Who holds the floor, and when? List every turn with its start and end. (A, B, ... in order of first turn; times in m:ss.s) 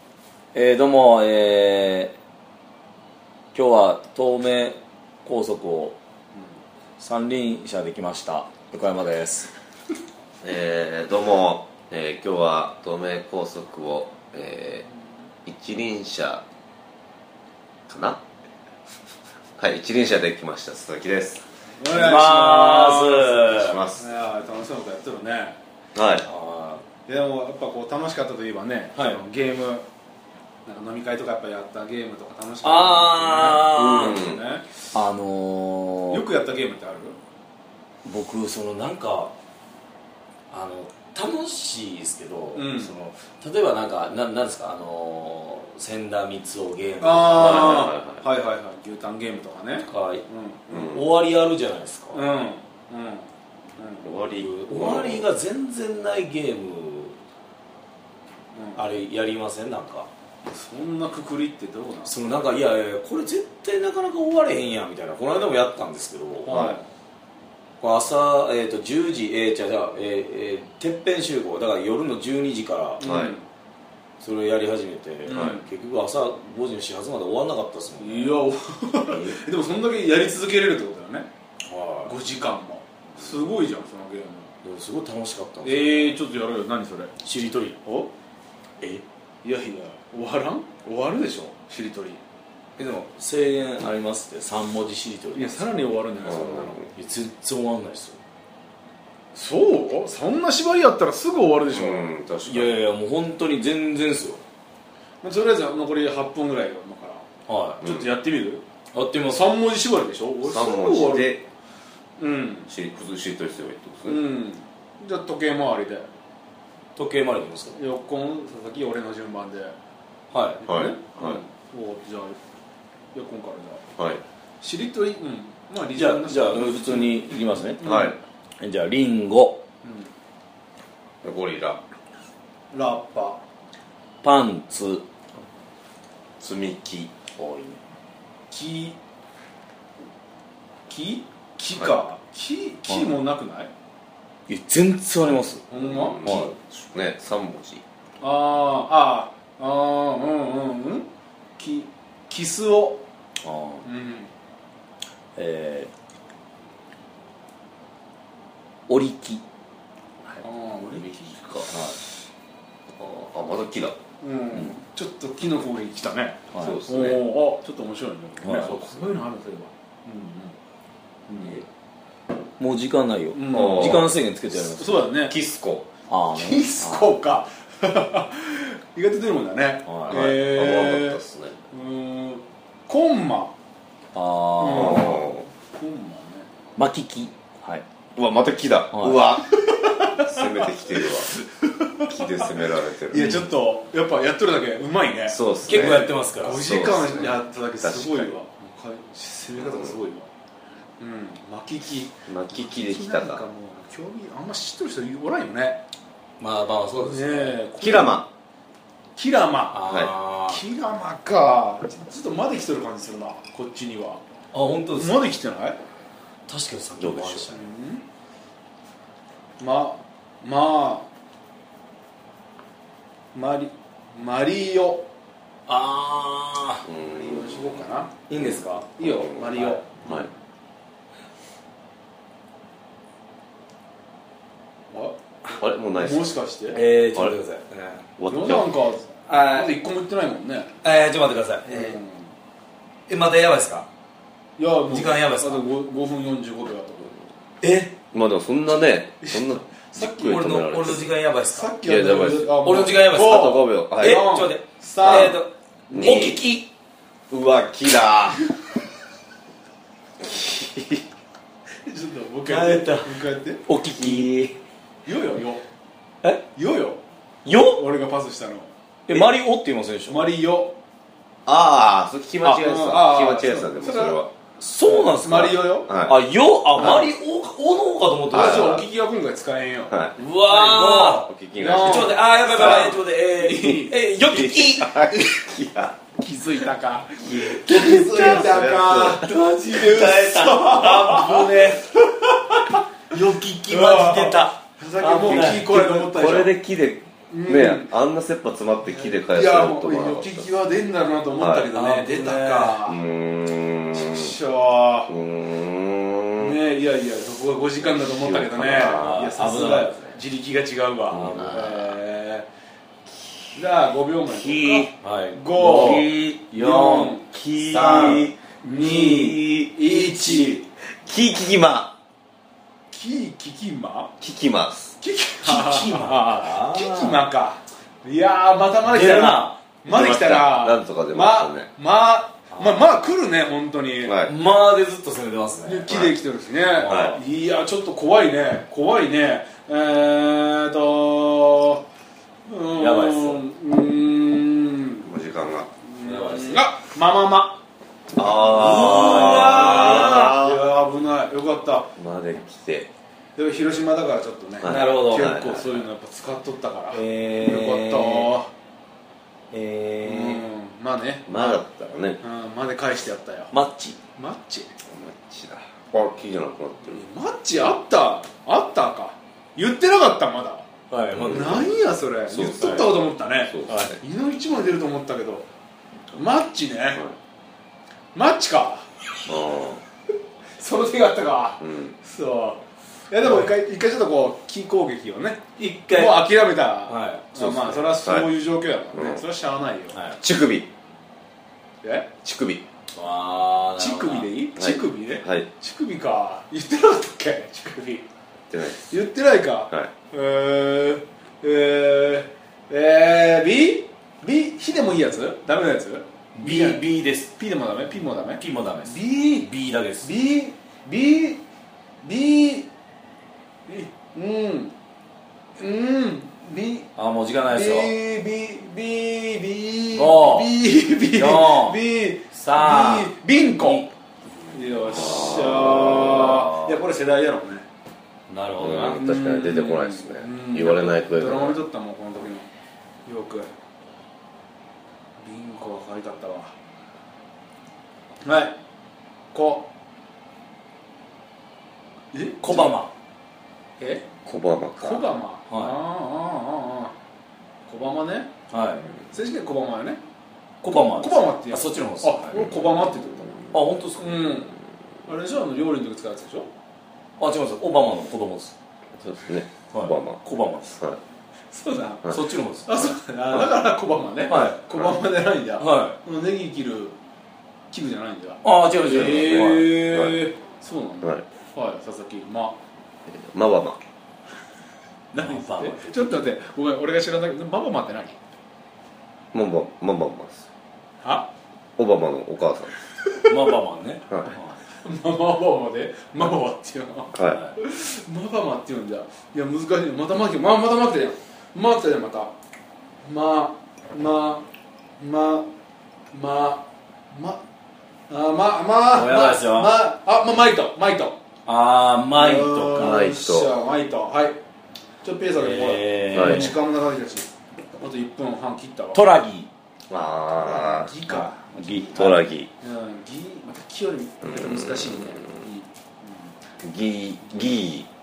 0:00.5-0:02.2 A
0:03.5-0:06.0 A
0:07.0-0:09.5 A
0:10.4-0:14.9 B
0:15.5-0:16.4 B
0:17.9-0:18.2 B
0:19.6-0:21.4 B
0:21.8-0:25.6 C
0:21.9-0:23.8 A
0:23.5-0:24.1 B
0:26.0-0:26.3 B
0:26.2-0:26.8 A
0:27.1-0:29.9 C
0:29.0-0:29.2 A
0:30.7-0:34.6 C
0:32.6-0:34.2 A
0:33.8-0:34.4 B
0:34.9-0:36.2 A
0:36.1-0:37.2 C
0:38.0-0:39.3 A
0:40.5-0:47.9 A
0:42.6-0:42.9 C
0:47.0-0:51.0 C
0:47.3-0:48.2 B
0:49.8-0:52.3 A
0:50.7-0:51.1 B
0:52.1-0:54.2 C
0:54.0-0:55.3 B
0:54.3-0:57.2 A
0:58.6-0:58.9 C
0:58.8-1:00.1 A
1:00.5-1:02.2 C
1:02.0-1:06.6 A
1:06.4-1:06.8 C
1:06.5-1:06.8 B
1:07.8-1:13.0 A
1:13.0-1:13.4 B
1:13.0-1:13.5 C
1:14.2-1:18.4 A
1:15.3-1:15.7 C
1:15.3-1:15.6 B
1:18.0-1:21.3 C
1:19.1-1:19.4 A
1:21.6-1:22.1 A
1:22.0-1:24.5 C
1:24.6-1:26.2 A
1:25.6-1:27.1 C
1:27.2-1:27.8 A
1:27.8-1:28.1 C
1:29.4-1:32.2 C
1:32.8-1:36.3 A
1:35.4-1:36.8 C
1:36.2-1:36.9 B
1:36.9-1:38.2 A
1:39.3-1:42.1 C
1:41.7-1:42.8 B
1:42.5-1:44.4 A
1:45.2-1:47.2 C
1:47.5-1:47.8 A
1:47.8-1:48.6 C
1:47.8-1:48.1 B
1:48.9-1:49.5 A
1:49.3-1:51.4 C
1:50.4-1:51.4 B
1:52.2-1:52.7 C
1:52.7-1:54.2 B
1:54.0-1:56.1 C
1:57.0-1:57.8 A
1:57.8-1:59.8 C
2:00.3-2:00.6 A
2:00.6-2:02.4 C
2:00.7-2:01.4 B
2:03.1-2:03.8 C
2:04.0-2:04.2 B
2:04.6-2:07.2 C
2:06.0-2:07.8 A
2:07.7-2:08.2 C
2:07.8-2:08.2 B
2:08.6-2:09.6 A
2:09.8-2:10.1 C
2:11.2-2:11.8 B
2:12.7-2:13.4 C
2:14.2-2:15.0 A
2:16.4-2:17.1 B
2:17.4-2:17.8 A
2:18.5-2:19.0 C
2:20.9-2:23.7 C
2:24.5-2:25.6 A
2:25.7-2:26.3 C
2:25.8-2:27.8 B
2:26.2-2:26.5 A
2:28.2-2:33.0 C
2:33.4-2:33.8 A
2:33.8-2:34.3 C
2:35.4-2:35.9 A
2:38.9-2:39.4 A
2:40.2-2:42.0 A
2:40.4-2:41.4 C
2:43.0-2:44.0 B
2:44.2-2:50.6 C
2:46.5-2:46.8 A
2:46.6-2:47.2 B
2:48.4-2:49.2 A
2:51.3-2:51.6 C
2:51.4-2:51.6 A
2:52.6-2:55.0 A
2:53.3-2:55.4 C
2:53.5-2:54.1 B
2:55.3-2:55.9 B
2:56.1-2:57.1 A
2:56.3-3:03.6 C
2:59.9-3:00.2 A
3:00.1-3:01.6 B
3:04.1-3:05.2 A
3:04.6-3:06.5 C
3:04.7-3:05.5 B
3:06.8-3:07.9 A
3:08.2-3:09.5 B
3:08.9-3:09.2 A
3:09.5-3:12.5 C
3:10.0-3:11.3 B
3:12.0-3:13.3 B
3:13.1-3:20.3 C
3:13.2-3:13.5 A
3:15.3-3:16.1 B
3:15.6-3:16.7 A
3:16.6-3:18.3 B
3:19.6-3:20.0 B
3:21.0-3:25.8 C
3:22.3-3:23.4 B
3:26.4-3:27.6 A
3:27.0-3:28.3 C
3:27.8-3:28.3 B
3:29.2-3:29.9 C
3:29.7-3:30.6 A
3:29.8-3:30.1 B
3:30.4-3:34.2 C
3:34.5-3:35.2 A
3:34.9-3:35.8 C
3:36.5-3:37.7 A
3:37.0-3:37.5 B
3:37.5-3:38.0 C
3:39.6-3:41.1 C
3:43.3-3:45.1 C
3:45.7-3:46.8 A
3:46.9-3:50.3 B
3:47.0-3:48.2 C
3:48.3-3:48.9 A
3:49.0-3:50.3 C
3:54.9-3:55.2 C
3:55.5-3:56.4 B
3:55.9-3:56.8 C
3:56.7-3:58.0 A
3:58.2-3:58.7 B
3:58.3-4:00.8 C
3:59.3-3:59.8 A
4:00.8-4:02.0 A
4:01.7-4:02.3 C
4:03.1-4:03.9 A
4:04.6-4:07.2 C
4:04.9-4:05.6 A
4:07.6-4:08.0 A
4:08.1-4:11.1 B
4:09.2-4:09.9 C
4:10.0-4:11.7 A
4:11.5-4:15.4 C
4:11.8-4:12.6 B
4:12.6-4:16.7 A
4:13.1-4:14.3 B
4:15.0-4:15.4 B
4:15.9-4:16.4 B
4:16.0-4:16.4 C
4:17.3-4:18.4 B
4:20.2-4:21.0 B
4:21.9-4:23.7 C
4:22.5-4:23.1 A
4:23.7-4:24.6 A
4:24.0-4:24.3 B
4:25.1-4:25.6 C
4:26.5-4:27.0 C
4:27.4-4:27.8 A
4:27.6-4:28.7 C
4:29.1-4:30.3 A
4:30.1-4:30.8 C
4:31.5-4:34.3 B
4:32.4-4:34.3 C
4:34.6-4:38.8 A
4:34.9-4:35.9 C
4:35.9-4:36.2 B
4:36.8-4:37.1 C
4:38.3-4:38.8 B
4:38.3-4:44.0 C
4:39.9-4:40.2 B
4:40.2-4:45.1 A
4:41.2-4:42.7 B
4:44.3-4:46.0 B
4:46.2-4:52.8 C
4:47.2-4:48.6 A
4:48.0-4:49.3 B
4:49.2-4:51.8 A
4:53.1-4:56.1 A
4:53.7-4:56.6 C
4:55.2-5:00.5 B
4:57.3-4:57.9 C
4:58.8-5:03.0 C
5:01.4-5:01.7 B
5:01.7-5:02.8 A
5:02.8-5:04.3 B
5:03.9-5:05.1 C
5:05.1-5:06.6 B
5:06.4-5:12.5 C
5:07.8-5:09.2 B
5:08.8-5:10.2 A
5:11.1-5:11.8 B
5:11.1-5:11.9 A
5:13.5-5:20.7 C
5:14.3-5:20.6 A
5:17.4-5:18.3 B
5:18.9-5:19.4 B
5:20.8-5:22.0 B
5:22.9-5:24.1 C
5:24.2-5:25.0 B
5:25.0-5:34.2 C
5:25.4-5:27.2 A
5:28.9-5:29.6 A
5:29.8-5:31.7 B
5:32.5-5:32.8 A
5:34.0-5:34.3 B
5:34.2-5:36.1 A
5:35.6-5:41.8 C
5:35.9-5:36.2 B
5:36.7-5:37.2 A
5:36.9-5:37.2 B
5:42.5-5:45.1 C
5:42.8-5:43.4 A
5:45.0-5:45.7 B
5:45.8-5:47.6 C
5:46.0-5:46.7 A
5:48.2-5:50.6 B
5:48.5-5:50.4 A
5:48.5-5:51.9 C
5:52.0-5:52.9 B
5:53.4-5:58.5 C
5:54.6-5:55.8 B
5:54.6-5:55.3 A
5:56.9-5:58.3 A
5:59.5-6:00.4 A
6:00.0-6:01.6 C
6:01.3-6:02.2 B
6:02.2-6:03.5 C
6:03.5-6:04.0 A
6:04.2-6:04.7 C
6:04.9-6:07.0 B
6:06.8-6:10.7 C
6:10.9-6:11.6 A
6:11.2-6:11.7 B
6:11.2-6:15.5 C
6:12.3-6:13.9 B
6:13.7-6:14.0 A
6:16.2-6:17.0 C
6:18.1-6:18.8 C
6:19.3-6:19.8 B
6:20.6-6:30.0 C
6:21.6-6:22.0 B
6:23.2-6:23.6 A
6:25.6-6:26.3 A
6:26.9-6:27.3 A
6:27.4-6:28.3 B
6:28.9-6:29.2 B
6:29.9-6:30.2 A
6:30.2-6:30.7 B
6:31.8-6:32.1 C
6:32.2-6:32.6 B
6:32.9-6:34.3 A
6:33.8-6:38.1 C
6:34.6-6:35.5 B
6:38.5-6:38.9 B
6:38.8-6:49.5 C
6:46.4-6:47.3 A
6:48.4-6:50.1 A
6:50.0-6:51.4 C
6:52.0-6:52.7 C
6:53.7-6:54.7 C
6:55.6-6:56.9 C
6:57.0-6:57.9 A
6:57.5-7:03.9 C
6:59.9-7:03.9 A
7:04.5-7:07.7 C
7:05.0-7:05.9 B
7:05.9-7:06.8 A
7:08.3-7:09.1 A
7:08.6-7:11.6 B
7:08.7-7:12.5 C
7:13.1-7:13.5 C
7:15.2-7:16.5 C
7:18.2-7:18.6 C
7:19.3-7:19.7 C
7:22.1-7:22.8 C
7:22.4-7:22.9 A
7:23.8-7:24.1 C
7:24.3-7:25.1 B
7:24.8-7:26.9 C
7:25.5-7:25.8 A
7:27.7-7:28.3 C
7:28.5-7:28.9 A
7:29.1-7:30.0 C
7:30.6-7:32.3 A
7:30.7-7:33.3 C
7:33.5-7:34.2 A
7:34.0-7:36.5 C
7:37.2-7:38.6 A
7:39.0-7:41.0 B
7:39.7-7:40.8 A
7:41.5-7:47.0 C
7:42.1-7:43.0 A
7:44.2-7:44.6 A
7:44.3-7:44.9 B
7:45.6-7:46.0 A
7:47.7-7:52.6 C
7:48.4-7:49.8 A
7:48.9-7:50.2 B
7:53.1-7:53.8 B
7:55.1-7:58.2 C
7:55.2-7:56.3 A
7:59.3-8:00.5 B
8:01.0-8:01.3 C
8:01.8-8:02.7 B
8:03.0-8:03.5 C
8:03.2-8:04.6 A
8:04.1-8:04.4 B
8:04.7-8:12.3 C
8:07.1-8:07.4 B
8:07.3-8:07.5 A
8:13.0-8:14.5 C
8:15.0-8:15.5 C
8:16.1-8:17.4 C
8:18.1-8:21.2 C
8:18.9-8:19.8 A
8:21.5-8:23.1 A
8:22.2-8:24.4 C
8:22.8-8:23.5 B
8:25.0-8:29.1 C
8:25.3-8:26.6 A
8:26.1-8:26.5 B
8:28.9-8:29.5 A
8:29.9-8:31.0 B
8:30.4-8:36.3 C
8:31.1-8:32.2 A
8:31.9-8:32.5 B
8:34.4-8:34.8 B
8:36.6-8:37.9 B